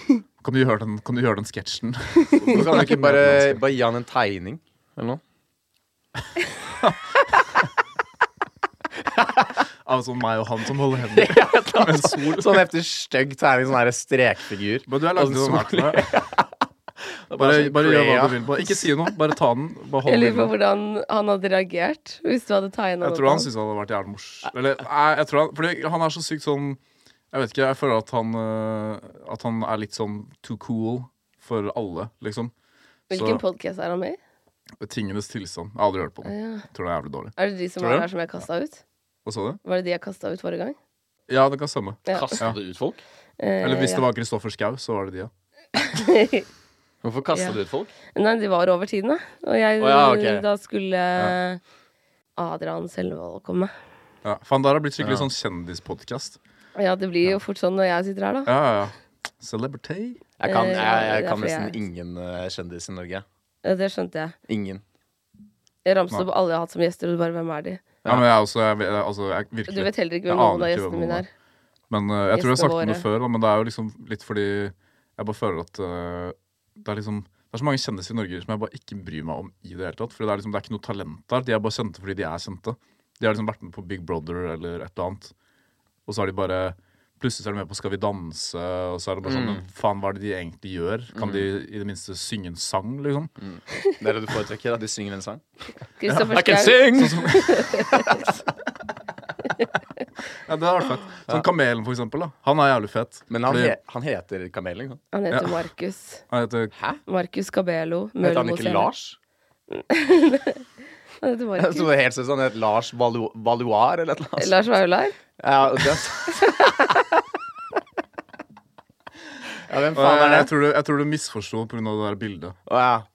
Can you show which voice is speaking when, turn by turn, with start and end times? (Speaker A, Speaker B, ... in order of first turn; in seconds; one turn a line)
Speaker A: 0.4-3.6
Speaker B: 2.4-5.2
Speaker B: 9.2-9.5
Speaker A: 9.8-12.6
Speaker B: 11.1-16.5
Speaker A: 14.9-16.1
Speaker B: 17.3-18.9
Speaker A: 17.4-20.5
Speaker C: 20.1-23.5
Speaker A: 23.0-26.8
Speaker A: 27.3-32.5
Speaker A: 33.1-33.4
Speaker C: 33.1-34.2
Speaker A: 34.8-37.3
Speaker C: 36.2-36.6
Speaker C: 37.4-38.8
Speaker A: 39.2-39.6
Speaker C: 39.6-40.8
Speaker A: 41.3-42.6
Speaker C: 42.1-42.4
Speaker B: 42.1-43.0
Speaker C: 43.4-44.0
Speaker A: 43.6-45.3
Speaker C: 45.8-46.5
Speaker B: 47.0-47.9
Speaker C: 48.1-51.6
Speaker B: 49.8-50.4
Speaker C: 52.4-53.7
Speaker A: 54.2-56.4
Speaker B: 55.0-55.3
Speaker C: 56.8-58.5
Speaker A: 58.5-60.2
Speaker B: 60.4-63.2
Speaker C: 60.4-61.7
Speaker C: 63.6-64.3
Speaker B: 64.5-64.8
Speaker C: 65.8-67.8
Speaker A: 68.0-71.2
Speaker C: 69.7-71.3
Speaker A: 71.9-85.3
Speaker C: 72.3-73.0
Speaker A: 86.0-93.3
Speaker B: 89.2-89.6
Speaker B: 91.1-91.5
Speaker B: 93.4-95.4
Speaker C: 96.0-98.2
Speaker B: 96.1-98.3
Speaker A: 96.9-97.6
Speaker A: 100.3-103.8
Speaker B: 103.3-105.0
Speaker C: 105.1-106.2
Speaker A: 105.3-105.6
Speaker A: 106.3-106.7
Speaker C: 107.0-108.9
Speaker B: 108.2-109.2
Speaker C: 109.7-110.6
Speaker C: 111.2-111.9
Speaker B: 111.6-114.6
Speaker C: 114.4-115.2
Speaker B: 115.4-116.6
Speaker C: 116.3-117.0
Speaker B: 119.7-120.5
Speaker A: 119.9-122.5
Speaker B: 122.7-123.0